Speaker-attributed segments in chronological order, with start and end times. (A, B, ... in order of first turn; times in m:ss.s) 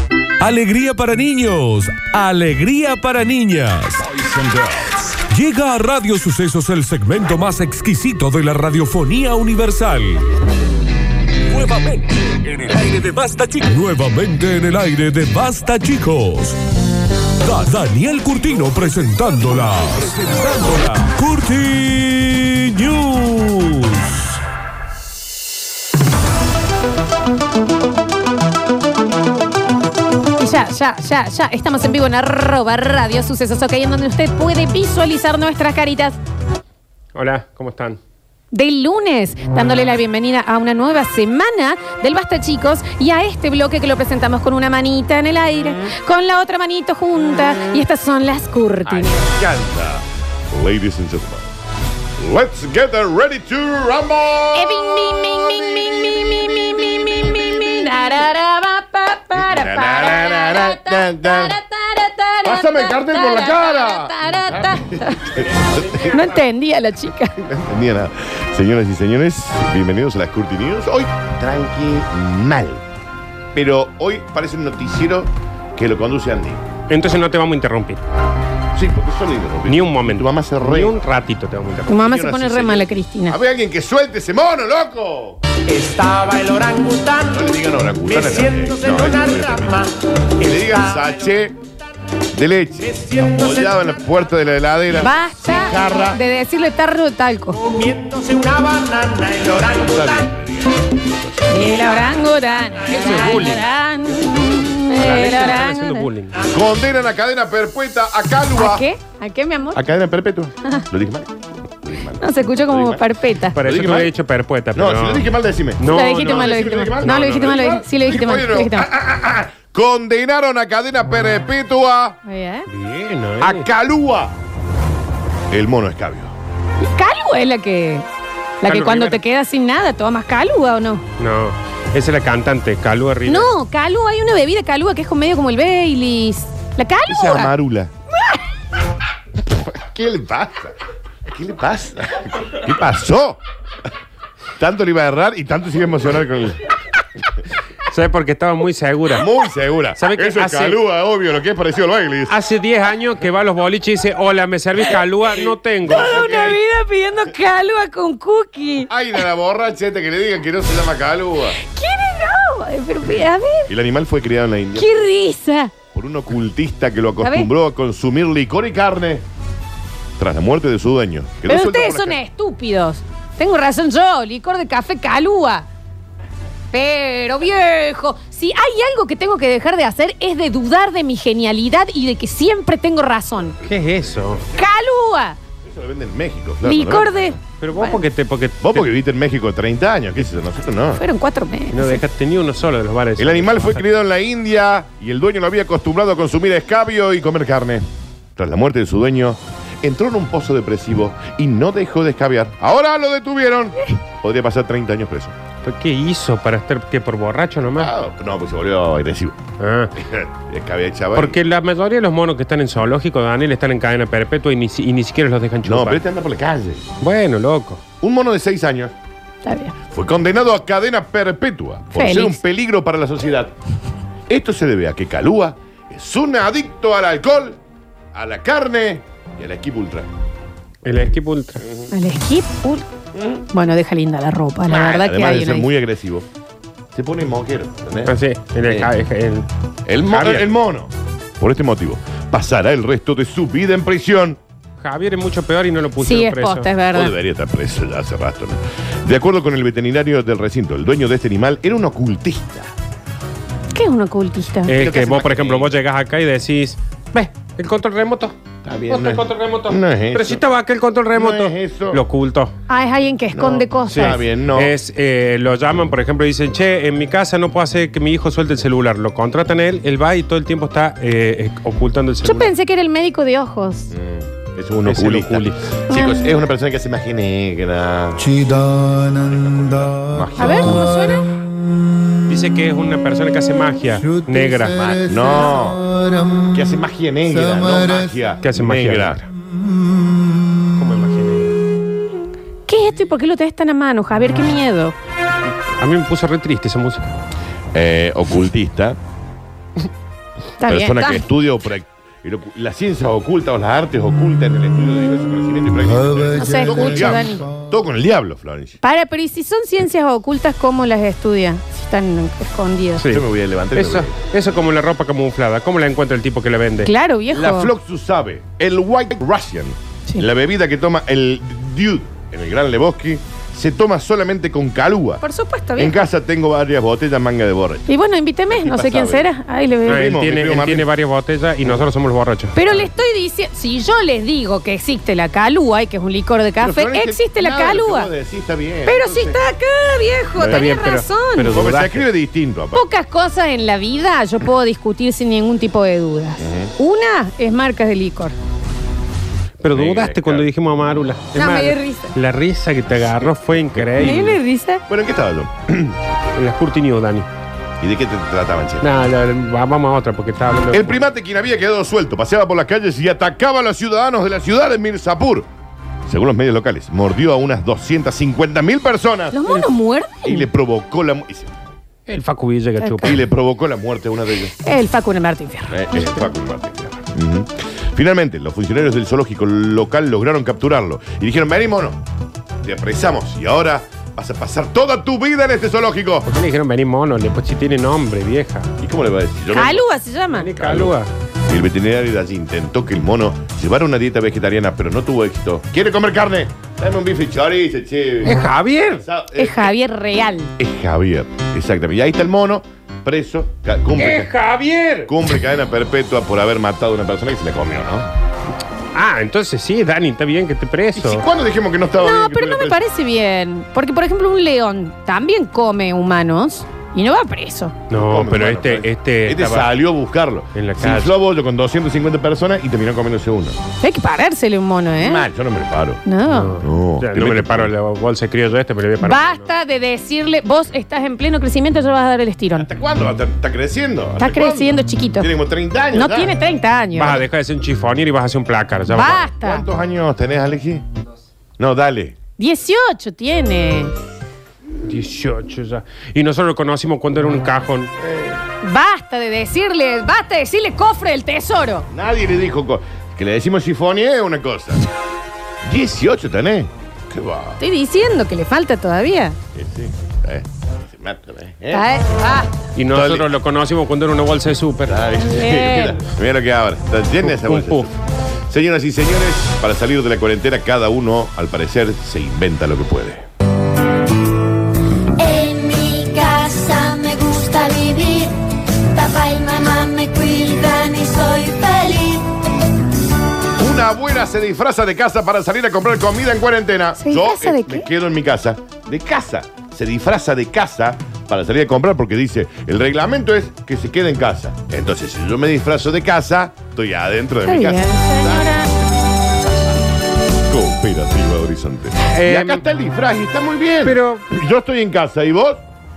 0:00.4-0:10.2 A
0:11.4-0:16.6 A
0:17.4-0:24.4 A
0:30.4-0:36.2 B
0:37.1-0:38.0 C
0:38.5-0:49.3 B
0:48.9-0:49.7 C
0:49.5-0:51.5 D
0:52.2-0:58.2 D
0:54.5-1:07.4 B
0:59.3-1:01.6 D
1:02.4-1:06.3 D
1:07.4-1:12.8 D
1:13.5-1:16.6 D
1:16.9-1:18.0 C
1:18.7-1:20.9 D
1:19.6-1:22.0 C
1:21.9-1:23.4 B
1:22.0-1:25.4 D
1:25.7-1:27.1 E
1:27.1-1:31.6 D
1:32.3-1:35.1 D
1:35.0-1:37.6 B
1:35.6-1:36.2 D
1:37.8-1:39.5 E
1:39.4-1:41.7 D
1:41.5-1:46.1 B
1:42.9-1:43.6 C
1:44.2-1:44.7 D
1:45.0-1:46.4 C
1:46.4-1:48.8 D
1:48.5-1:49.8 B
1:49.7-1:53.0 D
1:52.2-1:53.6 B
1:53.5-1:57.6 C
1:53.6-1:54.1 D
1:54.7-2:02.2 D
1:55.9-1:58.9 B
2:02.2-2:02.7 B
2:02.7-2:03.7 C
2:03.4-2:04.3 D
2:05.5-2:06.3 D
2:06.8-2:08.0 B
2:08.6-2:11.0 B
2:08.7-2:09.2 C
2:11.2-2:13.5 C
2:13.2-2:17.5 B
2:17.1-2:17.9 D
2:19.5-2:20.8 D
2:21.3-2:23.4 D
2:24.6-2:26.7 D
2:27.8-2:29.3 C
2:29.1-2:32.4 D
2:30.0-2:30.8 C
2:32.3-2:36.6 C
2:35.8-2:36.6 D
2:35.9-2:38.9 B
2:38.9-2:41.6 D
2:41.6-2:43.7 B
2:43.7-2:45.0 D
2:44.8-2:45.7 B
2:45.9-2:49.2 D
2:47.2-2:47.5 B
2:50.2-2:52.2 D
2:51.5-2:55.7 B
2:56.7-3:03.6 B
3:03.6-3:04.4 C
3:03.9-3:04.4 D
3:04.5-3:05.4 B
3:05.6-3:07.4 D
3:06.6-3:08.0 B
3:07.6-3:08.9 C
3:08.6-3:11.0 D
3:11.0-3:12.0 B
3:11.7-3:13.8 C
3:13.2-3:17.8 D
3:18.4-3:25.3 D
3:25.6-3:27.9 C
3:27.8-3:29.4 D
3:29.6-3:29.9 C
3:30.0-3:31.4 D
3:31.1-3:36.0 C
3:35.6-3:36.9 D
3:37.0-3:37.8 C
3:38.0-3:38.9 D
3:39.4-3:39.7 B
3:39.9-3:43.5 D
3:42.0-3:42.4 B
3:44.3-3:47.6 D
3:48.1-3:50.1 D
3:50.8-3:51.6 C
3:51.9-3:52.9 B
3:53.1-3:53.4 D
3:53.5-3:55.7 B
3:54.7-3:56.3 D
3:56.9-3:58.9 D
3:58.0-3:59.5 C
3:59.8-4:04.4 D
4:00.1-4:00.5 C
4:04.8-4:06.7 C
4:06.0-4:07.1 B
4:06.9-4:12.7 D
4:13.7-4:14.8 B
4:14.6-4:18.3 C
4:14.7-4:15.7 D
4:18.6-4:20.4 D
4:18.9-4:22.5 C
4:21.1-4:22.0 D
4:22.7-4:24.2 B
4:23.3-4:24.7 D
4:23.9-4:32.5 C
4:32.2-4:33.9 B
4:33.9-4:38.5 D
4:34.8-4:35.6 C
4:35.9-4:36.3 B
4:38.5-4:40.0 C
4:40.0-4:40.9 D
4:40.4-4:41.3 B
4:42.3-4:45.0 C
4:44.9-4:45.9 D
4:46.4-4:49.2 D
4:48.4-4:49.2 C
4:50.8-4:51.6 C
4:52.7-4:54.9 B
4:55.8-4:57.1 C
4:57.7-4:59.0 D
5:00.6-5:01.3 B
5:00.6-5:08.8 D
5:06.3-5:07.5 B
5:08.8-5:13.1 B
5:13.1-5:14.2 D
5:13.7-5:16.9 C
5:16.8-5:17.7 B
5:17.3-5:25.2 D
5:25.2-5:26.1 B
5:25.8-5:27.9 D
5:27.9-5:30.1 B
5:28.5-5:29.3 D
5:29.8-5:30.9 D
5:29.9-5:32.9 C
5:32.5-5:38.1 B
5:36.6-5:39.4 D
5:38.8-5:41.6 B
5:40.4-5:40.7 D
5:40.4-5:42.1 C
5:41.5-5:42.8 D
5:42.7-5:48.3 B
5:46.4-5:46.7 D
5:49.6-5:54.4 C
5:49.7-5:50.5 D
5:51.3-5:52.2 B
5:53.0-5:54.2 D
5:54.0-5:54.8 B
5:54.9-5:56.0 D
5:56.3-5:57.3 C
5:57.8-5:58.9 D
5:58.8-6:01.0 C
6:00.7-6:05.5 D
6:06.1-6:09.4 D
6:09.3-6:10.5 B
6:10.2-6:11.5 D
6:12.1-6:13.2 C
6:12.8-6:13.2 B
6:13.0-6:14.6 D
6:14.6-6:16.3 B
6:15.7-6:22.0 D
6:22.6-6:26.3 D
6:26.2-6:28.7 C
6:28.8-6:29.8 D
6:29.5-6:30.5 B
6:30.3-6:31.1 C
6:30.6-6:31.0 D
6:31.5-6:38.4 D
6:38.2-6:39.0 C
6:39.0-6:39.7 D
6:39.4-6:40.5 B
6:40.6-6:44.3 D
6:44.0-6:45.1 C
6:45.1-6:48.1 D
6:48.9-6:51.2 C
6:50.9-6:52.8 D
6:52.0-6:57.8 B
6:57.9-6:59.8 C
6:57.9-7:03.6 D
7:00.5-7:01.2 C
7:03.8-7:05.2 B
7:05.0-7:06.0 D
7:06.0-7:06.6 B
7:06.3-7:09.5 C
7:06.6-7:07.7 D
7:09.0-7:12.7 B
7:12.6-7:16.3 D
7:14.2-7:15.3 B
7:15.9-7:17.2 B
7:16.9-7:19.3 C
7:18.9-7:19.6 B
7:19.4-7:20.8 D
7:21.6-7:22.2 D
7:22.4-7:23.9 B
7:24.8-7:27.9 C
7:28.0-7:28.4 D
7:28.6-7:31.9 B
7:31.9-7:34.8 D
7:35.6-7:37.6 D
7:37.6-7:39.4 B
7:39.5-7:41.9 D
7:41.7-7:42.5 B
7:42.8-7:45.0 C
7:42.9-7:43.3 D
7:44.9-7:53.2 D
7:45.2-7:46.0 B
7:47.2-7:47.9 C
7:55.2-8:02.3 F
8:03.6-8:18.6 D
8:07.0-8:07.8 B
8:17.4-8:18.7 B
8:20.4-8:25.6 D
8:22.1-8:22.6 C
8:23.8-8:24.2 C